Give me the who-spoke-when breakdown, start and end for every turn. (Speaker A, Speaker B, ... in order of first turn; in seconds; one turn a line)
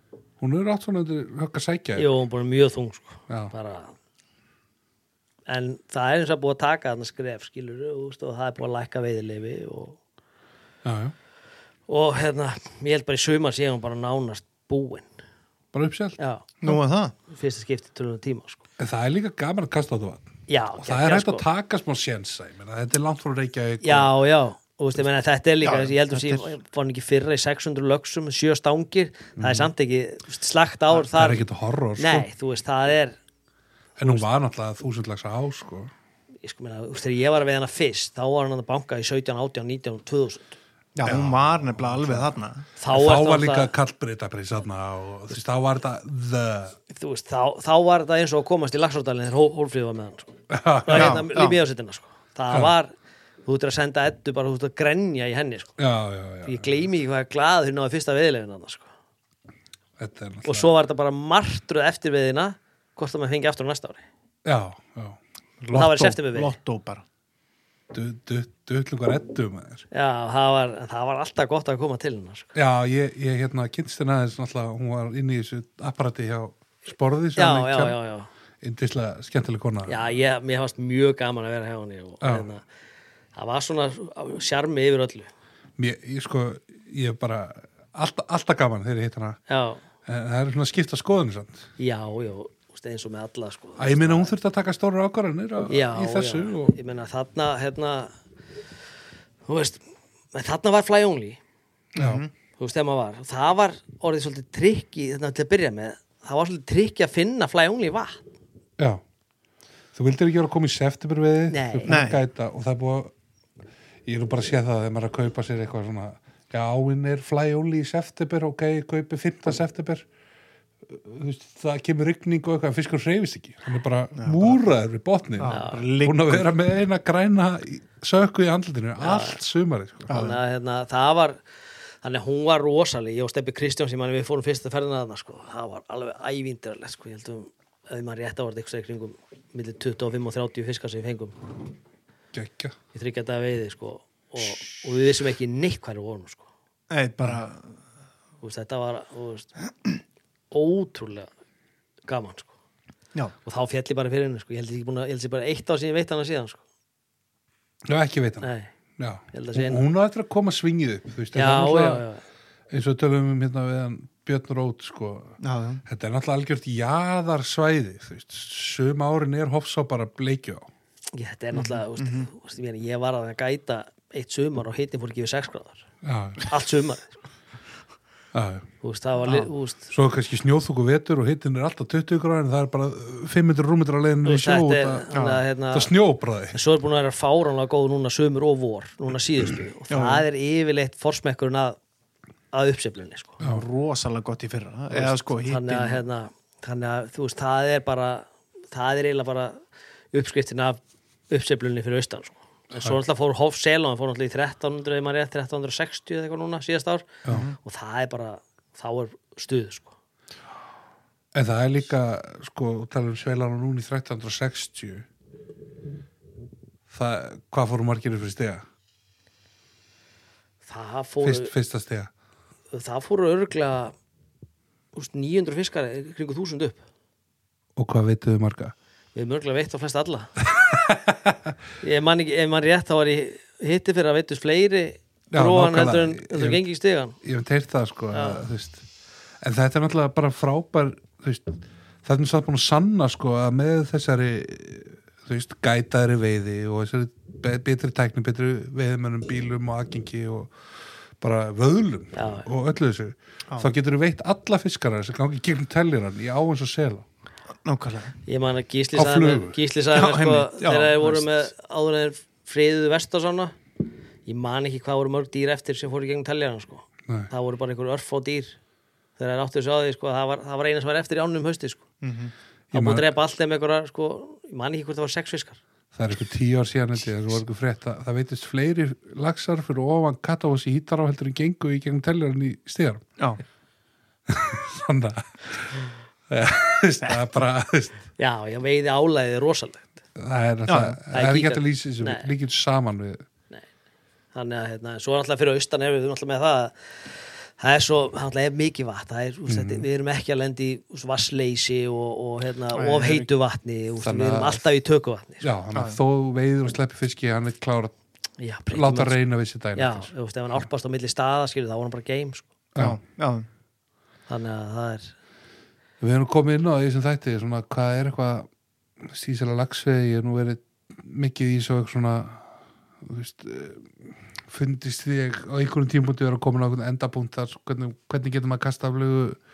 Speaker A: 0.4-2.1
Speaker B: 2.0-3.9
Speaker B: 5.5-10.0
Speaker A: 10.8-11.1
Speaker B: 11.9-15.1
Speaker A: 15.7-16.2
Speaker B: 16.2-16.4
Speaker C: 16.6-17.1
Speaker B: 17.3-18.6
Speaker A: 18.8-24.1
Speaker B: 20.5-21.4
Speaker B: 23.8-31.4
Speaker C: 25.6-26.5
Speaker A: 29.4-29.7
Speaker A: 31.1-32.2
Speaker B: 32.0-33.1
Speaker A: 34.0-35.9
Speaker B: 34.0-34.2
Speaker B: 36.4-40.6
Speaker C: 40.9-42.6
Speaker A: 41.0-42.3
Speaker B: 42.8-43.7
Speaker A: 42.9-46.8
Speaker B: 46.9-50.3
Speaker A: 50.5-51.3
Speaker B: 50.8-52.9
Speaker C: 50.9-51.6
Speaker B: 53.4-55.8
Speaker A: 55.8-56.9
Speaker B: 56.5-58.9
Speaker A: 60.0-60.7
Speaker B: 60.4-64.0
Speaker A: 64.4-65.2
Speaker C: 65.6-67.0
Speaker B: 65.7-66.5
Speaker A: 67.9-69.8
Speaker B: 69.9-72.5
Speaker A: 72.5-78.0
Speaker B: 77.3-78.3
Speaker A: 78.6-80.0
Speaker B: 79.9-82.6
Speaker A: 82.2-82.5
Speaker B: 83.3-85.3
Speaker A: 85.8-89.4
Speaker B: 89.5-89.8
Speaker A: 90.0-91.7
Speaker B: 91.8-94.3
Speaker A: 93.8-96.7
Speaker B: 95.7-98.1
Speaker B: 99.5-99.8
Speaker B: 100.3-101.4
Speaker C: 101.9-102.3
Speaker A: 102.0-102.2
Speaker B: 102.6-108.2
Speaker A: 109.9-113.1
Speaker B: 111.5-112.0
Speaker C: 111.9-112.2
Speaker A: 114.0-120.0
Speaker A: 120.9-130.1
Speaker C: 124.2-124.6
Speaker C: 125.4-126.5
Speaker B: 125.5-125.8
Speaker B: 129.0-129.4
Speaker C: 130.1-130.4
Speaker B: 130.1-131.4
Speaker B: 132.0-141.4
Speaker A: 142.3-142.7
Speaker B: 142.9-146.4
Speaker C: 146.9-147.7
Speaker B: 148.4-149.5
Speaker B: 150.5-151.3
Speaker B: 152.1-152.5
Speaker B: 153.4-156.6
Speaker A: 157.9-162.0
Speaker B: 158.4-158.7
Speaker B: 159.3-159.8
Speaker B: 161.3-162.2
Speaker A: 162.7-170.7
Speaker C: 165.4-165.8
Speaker B: 171.1-175.8
Speaker C: 171.5-172.3
Speaker A: 176.0-176.5
Speaker B: 176.5-177.2
Speaker A: 178.3-178.7
Speaker B: 178.8-179.9
Speaker A: 179.9-185.1
Speaker B: 184.2-185.9
Speaker C: 185.1-185.4
Speaker A: 185.7-186.6
Speaker B: 186.5-191.8
Speaker C: 189.9-190.2
Speaker B: 192.5-193.4
Speaker C: 193.4-196.0
Speaker B: 194.9-199.6
Speaker B: 200.1-209.9
Speaker C: 207.3-207.6
Speaker A: 211.3-215.1
Speaker A: 216.9-218.6
Speaker B: 220.7-221.5
Speaker A: 221.2-222.1
Speaker B: 222.7-223.9
Speaker B: 224.9-226.8
Speaker A: 227.8-228.7
Speaker B: 229.1-230.3
Speaker A: 230.6-231.4
Speaker B: 231.8-237.2
Speaker A: 235.3-236.6
Speaker A: 237.2-238.8
Speaker B: 238.1-238.4
Speaker A: 239.4-250.5
Speaker A: 251.2-257.0
Speaker B: 252.1-252.5
Speaker C: 257.6-258.1
Speaker B: 258.2-263.6
Speaker A: 258.9-259.6
Speaker C: 259.9-261.4
Speaker B: 264.2-268.5
Speaker B: 269.2-271.8
Speaker C: 272.0-272.3
Speaker A: 272.7-273.1
Speaker B: 272.7-275.6
Speaker A: 275.9-283.0
Speaker A: 284.3-288.1
Speaker B: 288.2-289.9
Speaker A: 290.2-293.2
Speaker C: 290.6-291.0
Speaker B: 291.1-292.3
Speaker B: 294.3-296.7
Speaker B: 297.6-305.5
Speaker A: 299.5-299.8
Speaker C: 302.7-303.3
Speaker A: 304.0-304.6
Speaker A: 305.4-307.9
Speaker C: 305.7-306.0
Speaker B: 308.4-309.1
Speaker A: 308.7-310.1
Speaker B: 309.8-312.5
Speaker C: 312.8-313.5
Speaker B: 314.3-315.1
Speaker A: 316.0-318.5
Speaker A: 319.0-322.5
Speaker A: 323.0-329.4